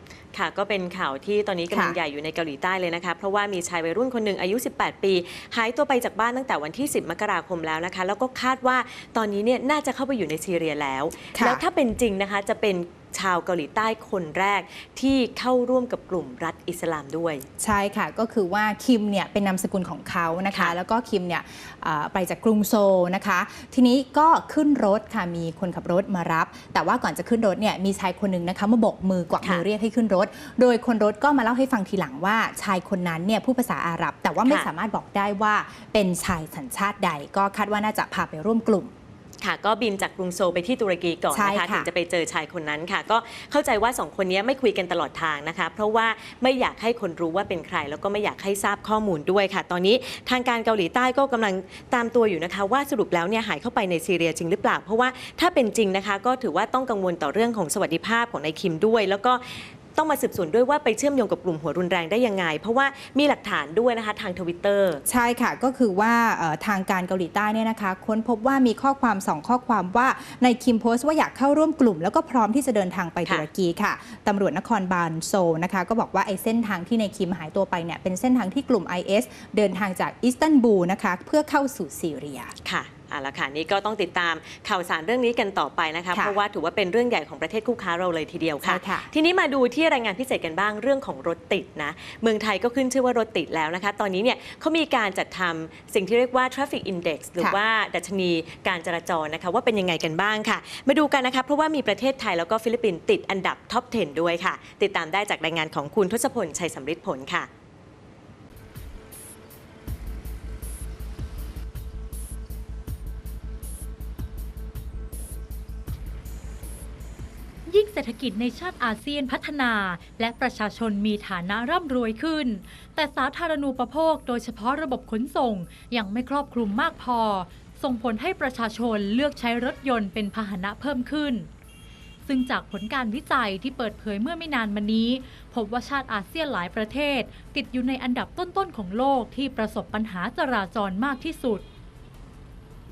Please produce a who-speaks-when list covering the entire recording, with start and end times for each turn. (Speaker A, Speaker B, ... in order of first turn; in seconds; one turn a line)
Speaker A: 0.3-17.5
Speaker B: 1.7-2.0
Speaker B: 11.3-11.6
Speaker B: 17.6-38.9
Speaker A: 39.4-65.0
Speaker B: 41.3-41.9
Speaker B: 65.1-82.5
Speaker A: 82.7-107.5
Speaker B: 88.6-89.1
Speaker C: 117.7-131.5
Speaker C: 132.3-141.7